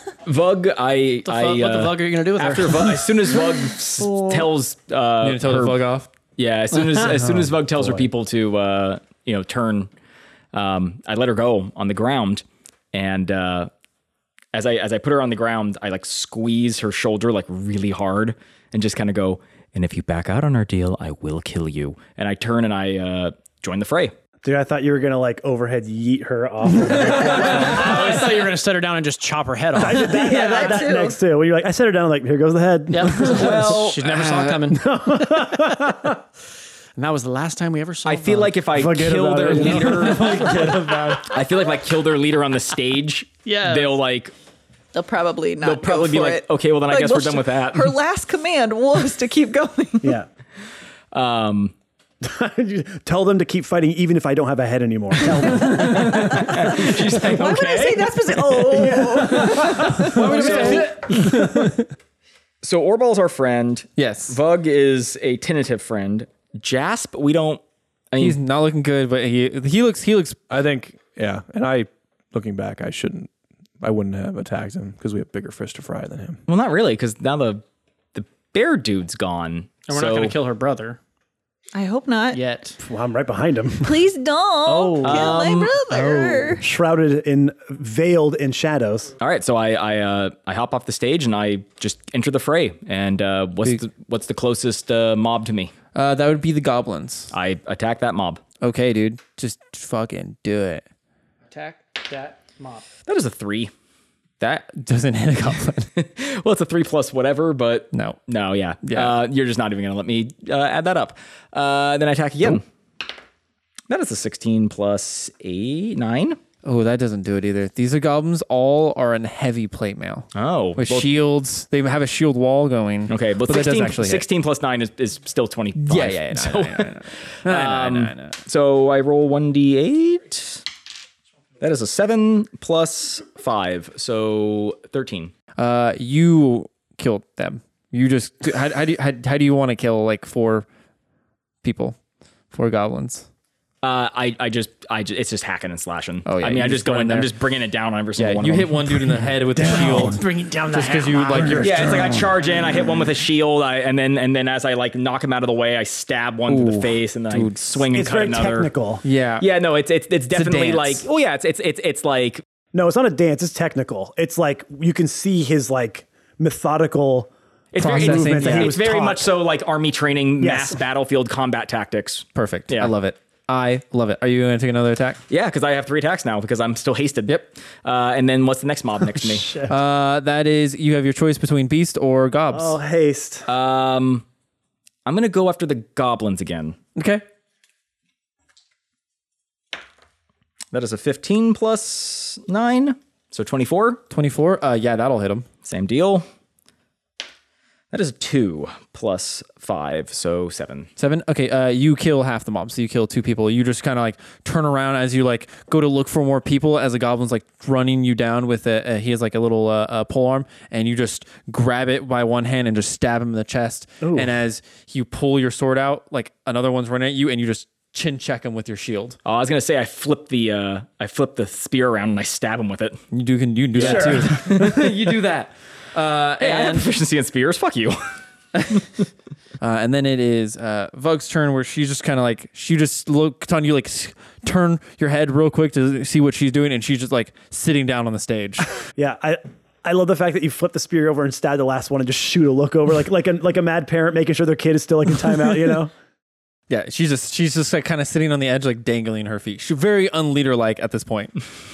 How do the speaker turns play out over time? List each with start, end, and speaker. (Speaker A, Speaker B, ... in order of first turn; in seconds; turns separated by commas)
Speaker A: 0.2-5.8, Speaker B: 1.2-3.4, Speaker C: 5.2-6.1, Speaker A: 6.3-9.9, Speaker D: 7.1-8.0, Speaker A: 10.5-13.7, Speaker A: 14.5-24.1, Speaker D: 24.4-28.2, Speaker B: 27.0-30.4, Speaker D: 29.7-33.8, Speaker E: 30.0-31.2, Speaker B: 32.9-35.5, Speaker A: 33.2-34.0, Speaker C: 34.0-34.6, Speaker D: 34.7-36.2, Speaker B: 37.0-38.6, Speaker A: 38.0-40.6, Speaker D: 38.7-41.1, Speaker C: 39.5-41.3, Speaker A: 41.2-44.3, Speaker B: 43.4-44.0, Speaker E: 44.9-50.2, Speaker A: 45.6-47.9, Speaker D: 50.0-50.3, Speaker A: 51.1-51.7, Speaker D: 52.2-57.1, Speaker C: 55.6-56.2, Speaker E: 55.6-56.5, Speaker A: 55.7-58.1, Speaker E: 57.2-60.6, Speaker D: 58.3-60.8, Speaker C: 59.5-61.9, Speaker F: 60.1-61.0, Speaker A: 60.3-61.2, Speaker A: 62.6-68.4, Speaker C: 64.0-64.4, Speaker C: 68.2-70.4, Speaker F: 70.5-76.4, Speaker A: 76.5-77.6, Speaker A: 78.1-80.3, Speaker B: 79.9-81.0, Speaker E: 81.7-82.4, Speaker B: 82.3-82.8, Speaker D: 82.8-84.0, Speaker E: 83.8-86.7, Speaker A: 85.0-85.7, Speaker D: 85.9-89.1, Speaker A: 89.2-95.7, Speaker C: 95.9-97.3, Speaker A: 97.3-98.4, Speaker C: 98.6-100.8, Speaker B: 101.5-102.8, Speaker A: 103.0-103.7, Speaker C: 104.4-105.9, Speaker A: 106.0-112.6, Speaker C: 107.9-108.2, Speaker C: 108.8-109.2, Speaker A: 113.9-116.4, Speaker C: 116.6-124.2, Speaker A: 120.3-121.1, Speaker A: 123.1-130.6, Speaker C: 125.7-128.4, Speaker A: 131.6-135.3, Speaker C: 135.6-140.7, Speaker C: 141.6-142.0, Speaker C: 142.5-143.2, Speaker A: 143.8-148.9, Speaker C: 146.2-147.3, Speaker C: 148.2-152.2, Speaker D: 149.1-152.8, Speaker A: 151.6-158.7, Speaker C: 156.5-157.9, Speaker D: 157.9-159.0, Speaker C: 159.0-159.5, Speaker A: 159.4-162.4, Speaker C: 160.3-161.1, Speaker D: 162.7-169.4, Speaker A: 167.7-172.9, Speaker C: 167.8-168.8, Speaker D: 170.4-170.8, Speaker C: 172.3-175.2, Speaker A: 175.3-179.6, Speaker D: 179.1-179.7, Speaker C: 179.7-182.8, Speaker D: 182.5-183.5, Speaker A: 183.5-184.2, Speaker A: 185.1-186.8, Speaker C: 186.9-187.2, Speaker A: 190.7-194.0, Speaker C: 194.1-195.4, Speaker A: 195.6-196.2, Speaker A: 197.9-200.9, Speaker C: 201.0-219.2, Speaker D: 214.0-214.3, Speaker A: 219.2-223.0, Speaker C: 223.1-226.9, Speaker A: 223.7-224.9, Speaker D: 223.8-224.7, Speaker A: 226.4-228.0, Speaker C: 229.6-238.7, Speaker D: 238.9-245.9, Speaker C: 246.7-251.4